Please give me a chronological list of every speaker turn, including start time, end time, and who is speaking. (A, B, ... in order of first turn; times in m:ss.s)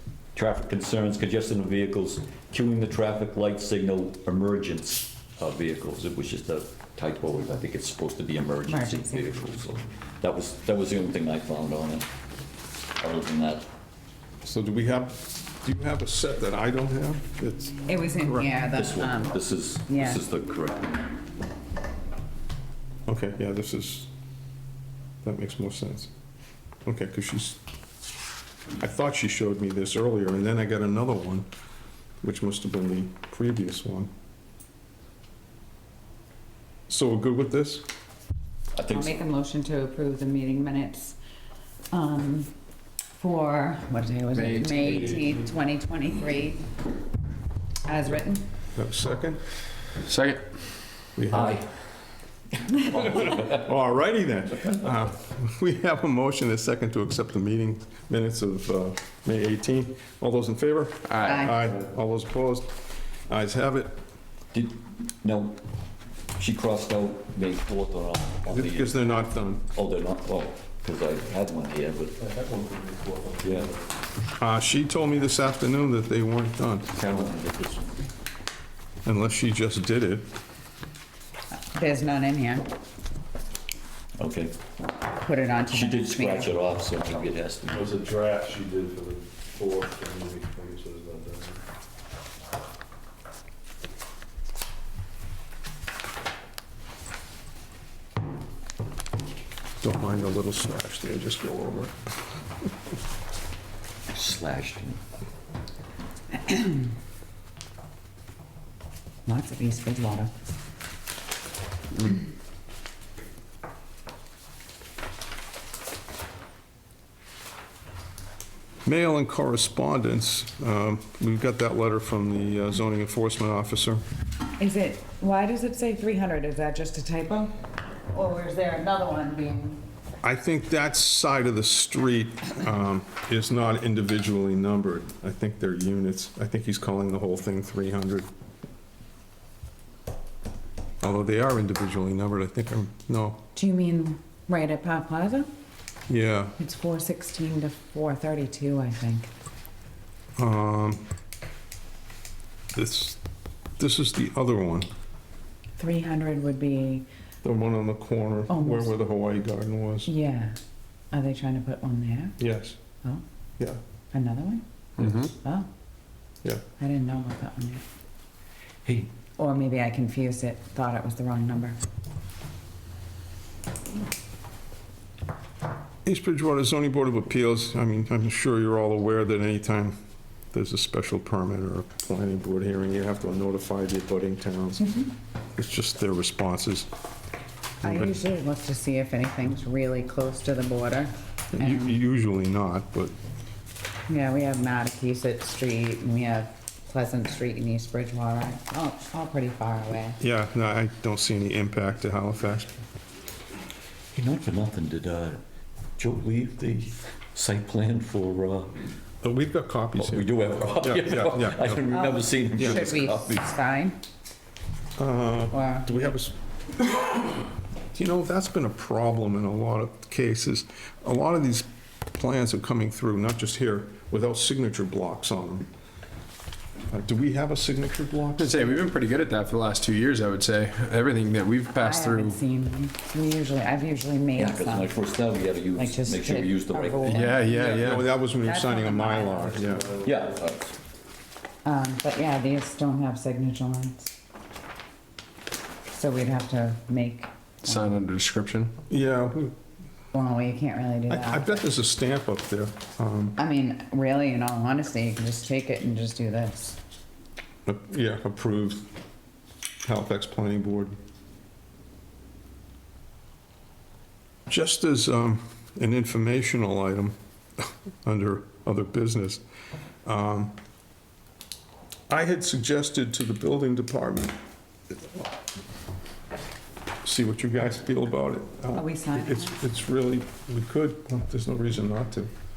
0:00.4-0:12.1 A
0:08.7-0:09.4 B
0:13.0-0:13.7 A
0:14.4-0:18.5 C
0:17.9-0:20.2 B
0:18.7-0:21.0 A
0:23.1-0:24.1 C
0:25.2-0:26.1 C
0:26.8-0:27.6 C
0:28.8-0:31.5 C
0:32.2-0:34.1 C
0:36.9-0:37.9 C
0:38.7-0:39.2 A
0:38.9-0:41.2 B
0:41.9-0:42.5 B
0:43.2-0:46.7 B
0:44.3-0:45.4 D
0:47.8-0:48.4 B
0:48.8-0:49.4 C
0:50.0-0:50.4 D
0:51.2-0:51.6 C
0:51.3-0:51.9 A
0:52.7-0:53.6 A
0:53.0-1:02.7 C
1:01.1-1:01.4 D
1:01.2-1:01.6 B
1:03.3-1:04.0 C
1:04.5-1:05.6 A
1:06.4-1:12.2 A
1:08.5-1:09.6 C
1:12.2-1:13.7 E
1:13.4-1:13.7 A
1:14.4-1:16.9 C
1:16.9-1:18.0 A
1:19.0-1:20.3 C
1:21.5-1:22.7 B
1:24.2-1:24.6 A
1:25.2-1:26.6 B
1:25.7-1:28.0 A
1:27.7-1:31.6 E
1:39.8-1:42.0 C
1:44.1-1:45.0 A
1:46.4-1:46.8 B
1:49.3-1:50.3 B
1:58.8-2:04.0 C
2:04.6-2:07.5 B
2:08.1-2:09.8 B
2:10.2-2:18.3 C
2:21.0-2:23.4 C
2:23.5-2:25.5 B
2:26.1-2:26.6 C
2:26.6-2:29.3 B
2:30.4-2:31.1 C
2:32.8-2:33.2 C
2:33.8-2:34.9 C
2:35.8-2:37.1 B
2:37.4-2:40.1 C
2:38.5-2:38.9 B
2:40.1-2:40.6 B
2:41.1-2:42.4 B
2:42.4-2:42.8 C
2:44.1-2:44.6 B
2:45.0-2:45.3 D
2:45.3-2:45.7 B
2:46.8-2:47.8 B
2:48.8-2:49.1 A
2:49.4-2:51.8 B
2:56.0-3:00.0 C
3:00.5-3:06.9 C
3:07.8-3:12.0 B
3:07.8-3:08.2 C
3:11.5-3:13.1 C
3:14.1-3:20.2 B
3:20.2-3:22.7 C
3:24.1-3:25.4 A
3:26.0-3:28.8 A
3:29.2-3:31.8 C
3:30.0-3:33.5 A
3:31.9-3:34.0 B
3:32.6-3:32.9 C
3:35.0-3:45.7 C
3:35.5-3:36.1 B
3:46.9-3:48.8 C
3:48.4-3:52.4 D
3:51.8-3:54.9 B
3:54.4-3:57.5 A
3:55.8-3:59.6 B
3:57.1-3:58.1 D
3:57.8-4:00.0 C
4:00.0-4:00.8 A
4:01.6-4:04.1 B
4:05.9-4:07.3 B
4:07.6-4:08.7 D
4:08.9-4:09.6 C
4:10.1-4:11.6 B
4:11.1-4:13.4 C
4:13.4-4:16.8 B
4:17.7-4:18.9 C
4:19.8-4:21.0 C
4:24.5-4:29.4 C
4:30.0-4:30.6 C
4:32.1-4:34.4 C
4:34.9-4:35.2 C
4:37.0-4:42.3 C
4:38.8-4:39.6 B